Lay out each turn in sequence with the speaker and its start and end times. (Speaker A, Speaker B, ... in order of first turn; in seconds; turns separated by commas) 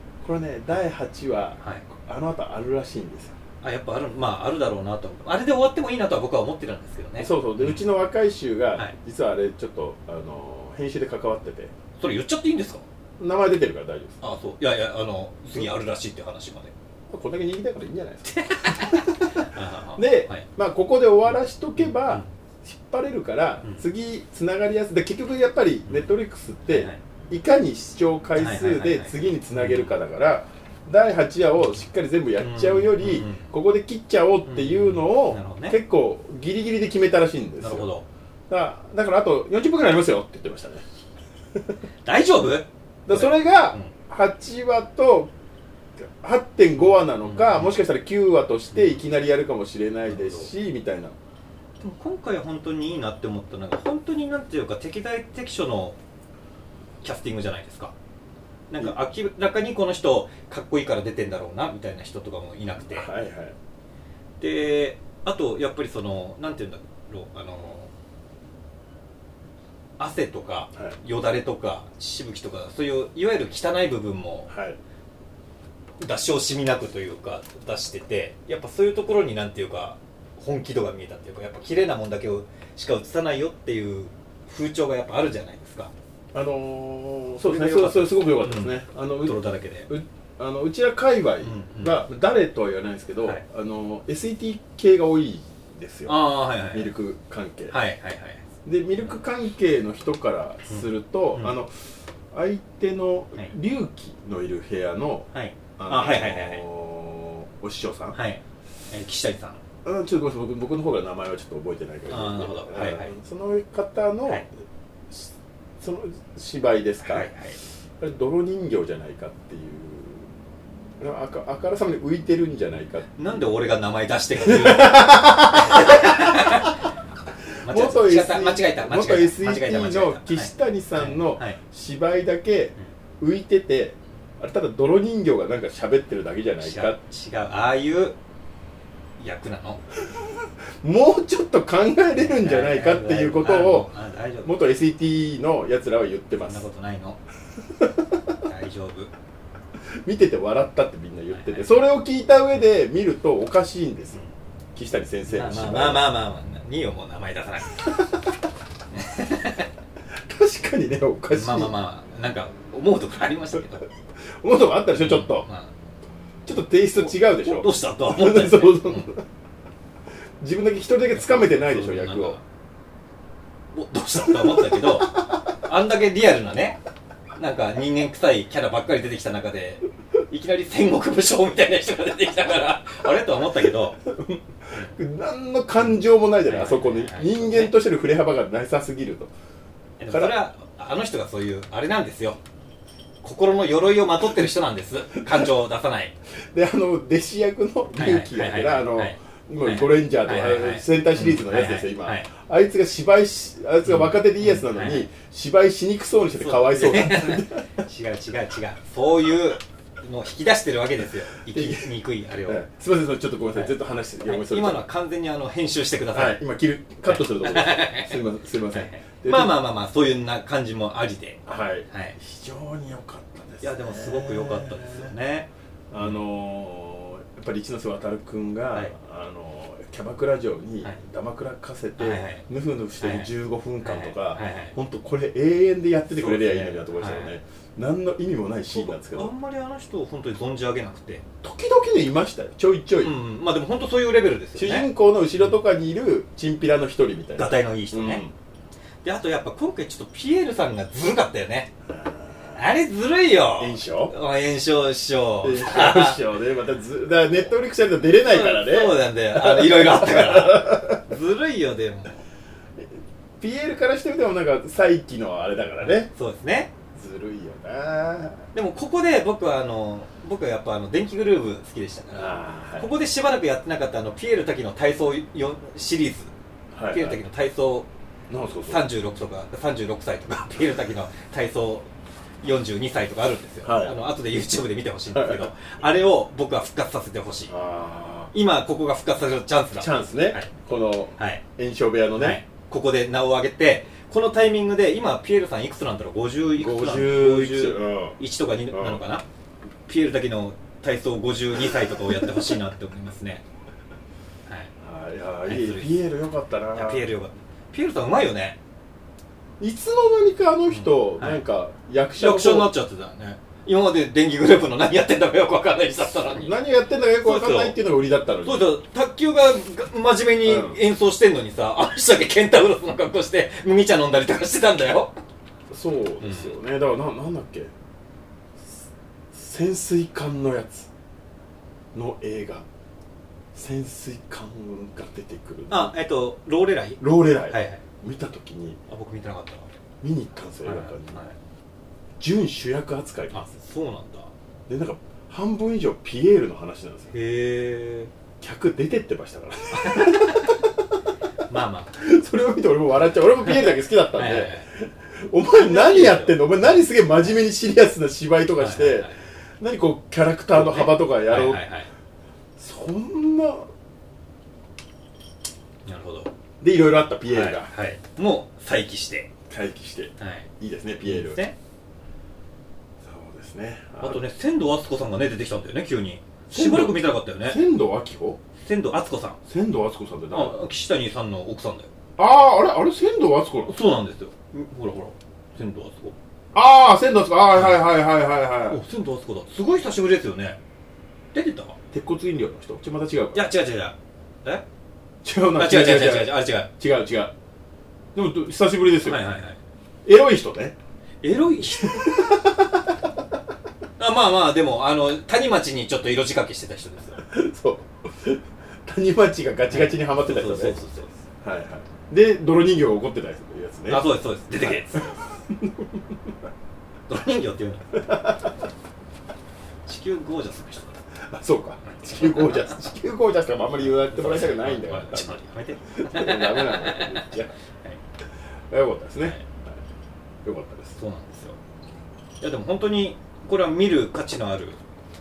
Speaker A: 0.2-3.4, Speaker B: 1.6-1.9, Speaker B: 3.6-7.8, Speaker A: 7.2-11.7, Speaker B: 12.0-12.8, Speaker A: 13.2-14.2, Speaker B: 14.2-16.7, Speaker A: 17.1-37.9, Speaker B: 18.3-20.5, Speaker B: 21.8-22.3, Speaker B: 25.9-26.1, Speaker B: 26.7-27.0, Speaker B: 28.4-29.9, Speaker B: 31.6-31.8, Speaker B: 32.4-33.5, Speaker B: 34.5-35.8, Speaker B: 37.6-38.1, Speaker A: 38.5-40.8, Speaker B: 42.0-43.9, Speaker A: 43.1-45.3, Speaker A: 46.0-51.1, Speaker B: 46.8-47.7, Speaker B: 48.7-49.0, Speaker B: 50.1-50.5, Speaker B: 51.8-56.0, Speaker B: 57.0-57.9, Speaker B: 58.7-63.1, Speaker A: 62.8-63.6, Speaker B: 64.4-67.9, Speaker B: 70.0-74.5, Speaker A: 74.5-74.8, Speaker B: 76.0-85.9, Speaker A: 86.3-97.8, Speaker B: 87.4-89.9, Speaker B: 91.4-92.0, Speaker B: 96.1-96.9, Speaker B: 97.7-98.4, Speaker A: 98.7-101.7, Speaker B: 100.7-101.5, Speaker A: 102.3-108.2, Speaker B: 105.3-106.6, Speaker B: 108.1-109.6, Speaker A: 109.8-114.5, Speaker B: 112.1-113.1, Speaker A: 115.1-117.3, Speaker B: 117.0-117.6, Speaker A: 118.0-120.3, Speaker A: 121.0-123.4, Speaker B: 123.2-126.9, Speaker A: 124.4-126.7, Speaker B: 127.6-131.6, Speaker A: 127.6-137.0, Speaker B: 136.6-138.2, Speaker B: 139.2-139.8, Speaker A: 140.8-143.9, Speaker B: 142.1-144.6, Speaker A: 144.4-146.7, Speaker B: 146.4-147.2, Speaker B: 148.4-149.1, Speaker A: 150.0-154.2, Speaker B: 151.3-151.7, Speaker A: 154.8-156.1, Speaker B: 155.3-158.1, Speaker A: 157.8-158.1, Speaker B: 158.9-159.7, Speaker A: 160.3-161.7, Speaker B: 161.3-163.8, Speaker A: 164.4-165.4, Speaker B: 164.9-165.7, Speaker A: 166.4-169.2, Speaker B: 167.0-169.1, Speaker A: 170.4-172.4, Speaker B: 171.1-172.4, Speaker B: 173.7-176.8, Speaker A: 174.2-175.2, Speaker B: 177.4-184.0, Speaker A: 184.1-189.3, Speaker B: 185.8-187.8, Speaker B: 190.0-192.4, Speaker A: 190.1-190.4, Speaker B: 193.2-196.1, Speaker A: 196.5-207.7, Speaker B: 197.9-202.3, Speaker B: 203.9-205.1, Speaker B: 206.4-212.6, Speaker A: 211.5-211.9, Speaker A: 212.4-214.8, Speaker B: 214.3-216.4, Speaker A: 216.1-219.6, Speaker B: 217.1-218.2, Speaker B: 218.7-222.2, Speaker A: 221.5-225.1, Speaker B: 223.6-226.2, Speaker A: 225.9-239.3, Speaker B: 232.0-232.4, Speaker B: 233.0-233.3, Speaker B: 233.8-234.7, Speaker B: 236.1-237.3, Speaker B: 238.7-241.2, Speaker A: 241.4-243.2, Speaker B: 243.0-245.6, Speaker A: 244.6-248.3, Speaker B: 247.4-248.2, Speaker B: 249.0-251.7, Speaker A: 251.9-252.6, Speaker B: 252.6-256.2, Speaker A: 253.6-254.2, Speaker A: 255.4-261.0, Speaker B: 258.2-262.2, Speaker A: 263.4-266.1, Speaker B: 265.8-266.7, Speaker A: 266.9-268.5, Speaker B: 268.5-276.3, Speaker A: 272.1-272.9, Speaker A: 276.7-277.2, Speaker B: 276.9-277.9, Speaker A: 278.3-278.8, Speaker B: 278.7-281.9, Speaker B: 282.4-287.5, Speaker A: 283.6-284.0, Speaker A: 285.1-285.5, Speaker A: 287.5-288.3, Speaker B: 288.3-290.5, Speaker A: 289.8-292.4, Speaker B: 292.2-299.2, Speaker A: 296.6-299.0, Speaker B: 299.9-303.4, Speaker A: 304.8-307.1, Speaker B: 305.4-305.9, Speaker B: 306.8-308.6, Speaker A: 309.6-312.7, Speaker B: 310.7-311.4, Speaker B: 312.2-316.6, Speaker A: 316.3-318.7, Speaker B: 317.2-317.8, Speaker B: 318.4-325.1, Speaker A: 320.4-320.8, Speaker A: 325.7-327.7, Speaker B: 326.2-326.5, Speaker A: 329.3-330.9, Speaker A: 331.9-332.7, Speaker A: 333.5-335.9, Speaker B: 335.7-337.8, Speaker A: 337.0-338.8, Speaker B: 338.9-339.7, Speaker A: 340.0-341.2, Speaker B: 340.6-341.4, Speaker A: 342.2-343.5, Speaker B: 343.3-344.3, Speaker A: 344.7-347.1, Speaker B: 347.1-348.1, Speaker A: 348.4-350.8, Speaker B: 349.7-350.6, Speaker B: 351.4-351.9, Speaker A: 352.0-361.6, Speaker B: 353.4-354.7, Speaker B: 355.5-357.4, Speaker B: 358.6-359.2, Speaker B: 360.5-361.9, Speaker A: 362.6-363.7, Speaker B: 365.9-366.3, Speaker A: 366.6-367.7, Speaker B: 367.3-369.3, Speaker A: 369.5-371.4, Speaker B: 370.2-370.5, Speaker B: 371.0-371.6, Speaker A: 373.0-374.2, Speaker B: 374.0-377.6, Speaker A: 376.5-378.4, Speaker B: 378.6-379.4, Speaker A: 379.5-380.7, Speaker B: 380.3-381.9, Speaker A: 382.2-383.8, Speaker B: 383.7-386.1, Speaker A: 386.5-388.8, Speaker B: 387.5-387.9, Speaker B: 388.7-390.6, Speaker B: 391.3-391.8, Speaker A: 391.9-393.5, Speaker B: 393.3-394.6, Speaker A: 395.2-397.3, Speaker B: 395.6-396.7, Speaker A: 398.1-399.2, Speaker B: 399.0-399.6, Speaker A: 400.1-400.8, Speaker B: 401.2-402.4, Speaker A: 401.6-403.0, Speaker B: 404.0-407.2, Speaker A: 407.2-410.8, Speaker B: 409.7-411.1, Speaker A: 411.4-416.0, Speaker B: 413.9-415.2, Speaker B: 417.1-418.2, Speaker A: 417.9-418.6, Speaker B: 419.9-421.0, Speaker A: 421.3-427.5, Speaker B: 421.9-422.8, Speaker B: 423.8-428.0, Speaker A: 428.7-429.8, Speaker A: 430.4-431.0, Speaker B: 431.0-431.6, Speaker B: 432.4-434.8